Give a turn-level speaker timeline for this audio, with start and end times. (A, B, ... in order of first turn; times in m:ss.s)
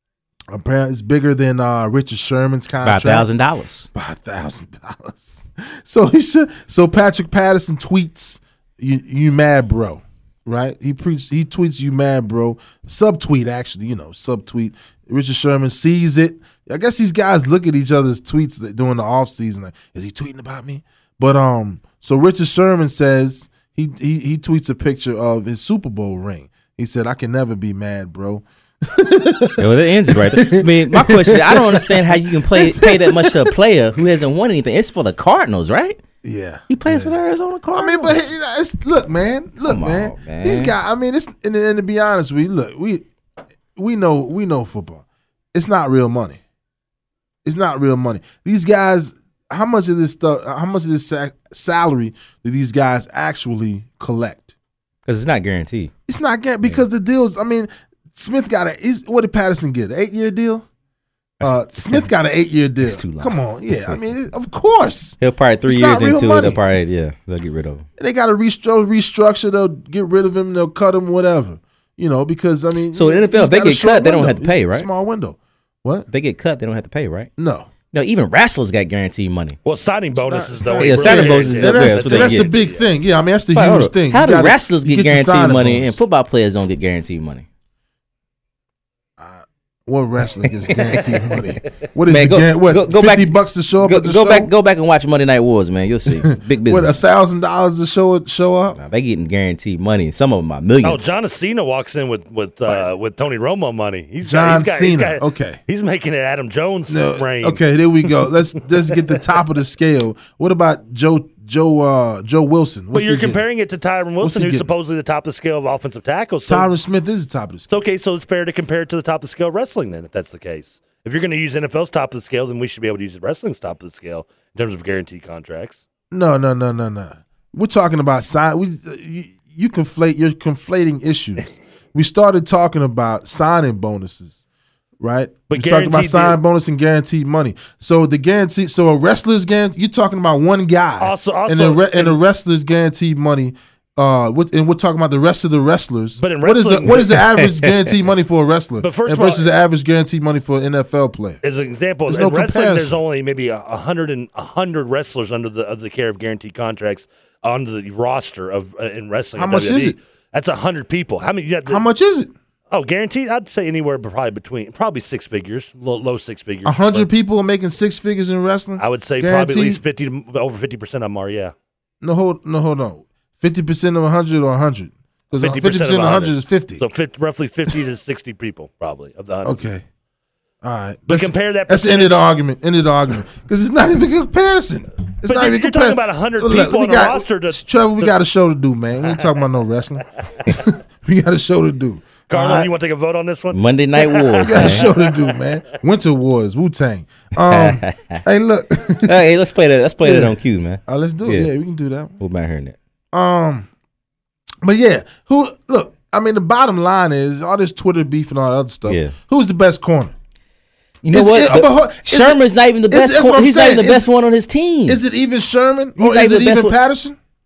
0:00.5-0:03.3 A
0:02.8-0:03.9 B
0:03.9-0:33.6 A
0:29.6-0:36.0 B
0:36.2-0:37.1 A
0:36.7-0:38.3 B
0:37.7-0:43.1 A
0:39.6-0:40.7 B
0:43.8-0:46.4 A
0:47.4-0:54.5 A
0:55.1-0:55.9 B
0:56.1-1:00.7 A
1:01.4-1:02.1 B
1:01.4-1:06.6 A
1:02.8-1:04.0 B
1:05.2-1:07.9 B
1:08.0-1:16.1 A
1:12.9-1:14.9 B
1:16.1-1:17.3 B
1:17.4-1:17.7 A
1:17.9-1:19.6 B
1:19.6-1:22.8 C
1:20.2-1:26.0 A
1:20.8-1:22.5 B
1:23.5-1:27.5 B
1:29.2-1:34.5 A
1:30.9-1:31.3 B
1:32.1-1:37.0 B
1:36.1-1:38.8 A
1:38.8-1:41.2 B
1:40.8-1:48.1 C
1:44.2-1:45.6 A
1:46.9-1:53.4 A
1:48.9-1:49.2 C
1:52.9-1:56.7 C
1:54.2-1:54.7 A
1:56.5-1:57.7 A
1:57.7-2:05.8 C
2:06.1-2:14.4 A
2:15.0-2:31.4 A
2:15.5-2:16.4 C
2:21.0-2:22.2 C
2:26.2-2:27.3 C
2:27.4-2:27.9 B
2:28.8-2:29.5 C
2:31.4-2:41.8 C
2:32.1-2:33.0 A
2:39.4-2:40.0 A
2:41.7-2:42.3 A
2:42.7-2:47.1 C
2:46.6-2:49.8 A
2:48.8-2:51.5 C
2:52.0-2:56.8 A
2:55.4-2:59.6 C
2:59.4-2:59.8 A
3:00.6-3:12.7 A
3:01.1-3:02.3 C
3:05.2-3:08.1 C
3:09.0-3:09.4 C
3:12.3-3:15.4 C
3:13.5-3:14.9 B
3:14.4-3:19.2 A
3:17.5-3:18.2 B
3:19.0-3:21.5 B
3:20.0-3:20.4 A
3:20.9-3:22.2 A
3:22.2-3:22.8 B
3:23.1-3:23.7 A
3:24.6-3:30.1 A
3:28.9-3:29.2 B
3:31.0-3:35.0 B
3:31.1-3:34.1 A
3:34.9-3:37.2 A
3:36.0-3:36.8 B